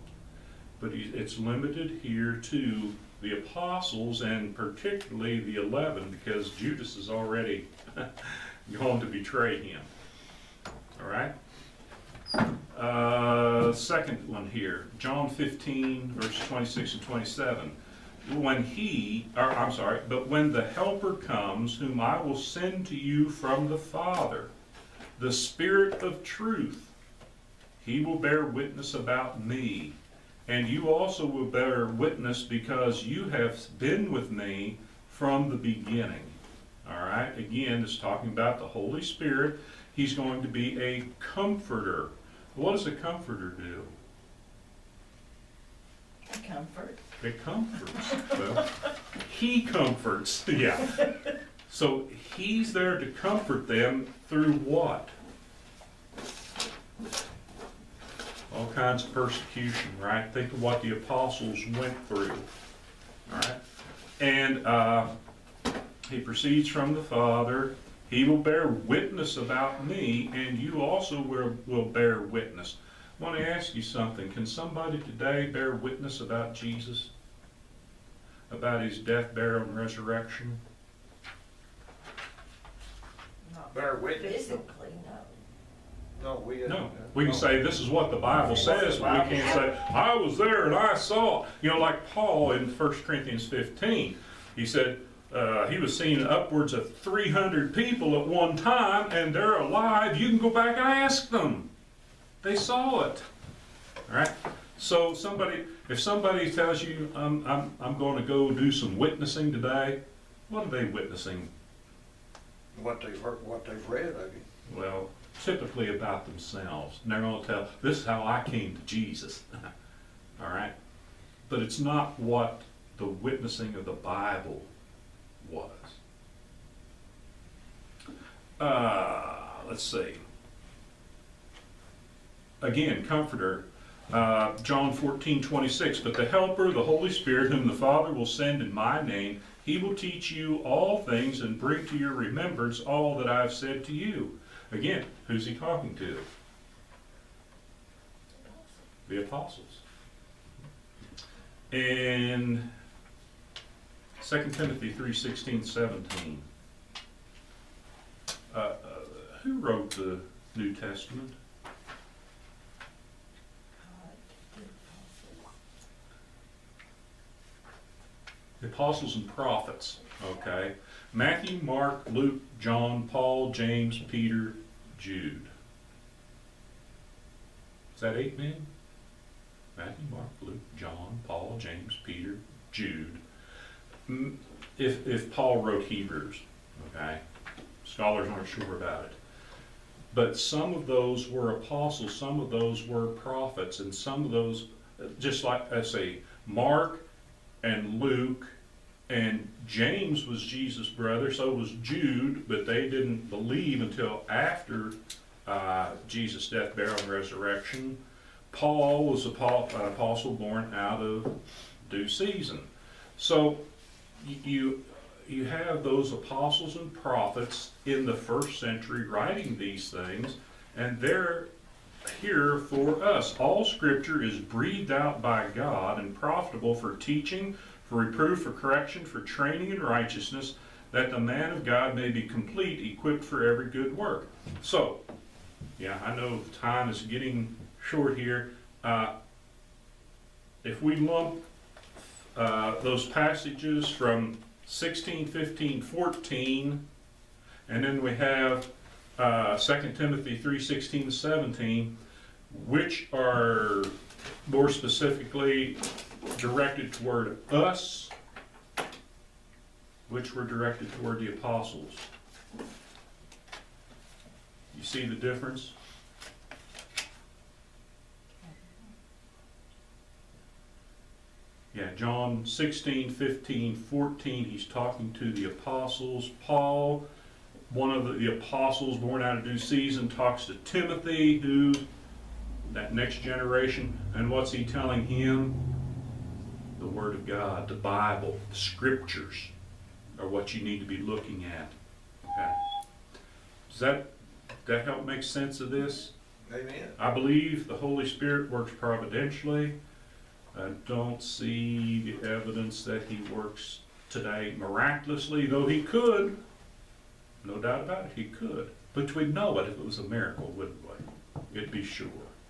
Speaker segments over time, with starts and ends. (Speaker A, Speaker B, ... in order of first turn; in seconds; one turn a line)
Speaker A: 0.8-9.9
Speaker A: 11.0-11.3
Speaker A: 12.7-24.5
Speaker A: 25.2-26.9
Speaker A: 27.8-30.0
Speaker A: 30.5-43.9
Speaker B: 46.3-47.1
Speaker A: 47.2-51.1
Speaker A: 51.7-55.1
Speaker A: 58.5-62.5
Speaker A: 63.3-63.6
Speaker A: 64.2-65.1
Speaker A: 66.1-77.1
Speaker A: 78.5-80.6
Speaker B: 83.4-85.4
Speaker C: 83.7-84.6
Speaker C: 86.2-87.5
Speaker A: 86.7-101.7
Speaker C: 88.5-89.7
Speaker A: 102.4-103.3
Speaker A: 104.1-111.5
Speaker C: 112.7-114.5
Speaker A: 114.7-119.7
Speaker A: 120.4-120.7
Speaker A: 121.5-124.7
Speaker A: 125.4-126.0
Speaker A: 128.6-130.2
Speaker A: 132.6-146.3
Speaker B: 148.4-148.8
Speaker A: 149.1-149.8
Speaker A: 151.7-152.7
Speaker A: 154.2-156.4
Speaker A: 158.5-161.3
Speaker B: 163.8-165.5
Speaker A: 168.6-175.5
Speaker A: 178.0-178.7
Speaker A: 179.8-183.2
Speaker A: 184.1-187.2
Speaker A: 187.8-189.2
Speaker A: 190.1-197.1
Speaker A: 197.6-198.6
Speaker A: 199.1-208.0
Speaker A: 208.5-213.6
Speaker A: 214.2-221.5
Speaker A: 222.1-235.0
Speaker A: 235.8-239.1
Speaker A: 240.6-241.4
Speaker A: 242.3-246.8
Speaker A: 247.7-251.9
Speaker A: 252.5-258.1
Speaker A: 260.1-262.1
Speaker A: 264.7-265.8
Speaker B: 268.4-268.7
Speaker A: 271.7-277.1
Speaker A: 277.7-281.9
Speaker A: 282.7-285.5
Speaker A: 286.8-289.5
Speaker A: 290.2-291.7
Speaker A: 292.3-292.6
Speaker A: 293.7-294.1
Speaker A: 294.6-296.1
Speaker C: 296.5-297.0
Speaker A: 297.0-299.8
Speaker A: 300.5-306.4
Speaker A: 307.4-312.3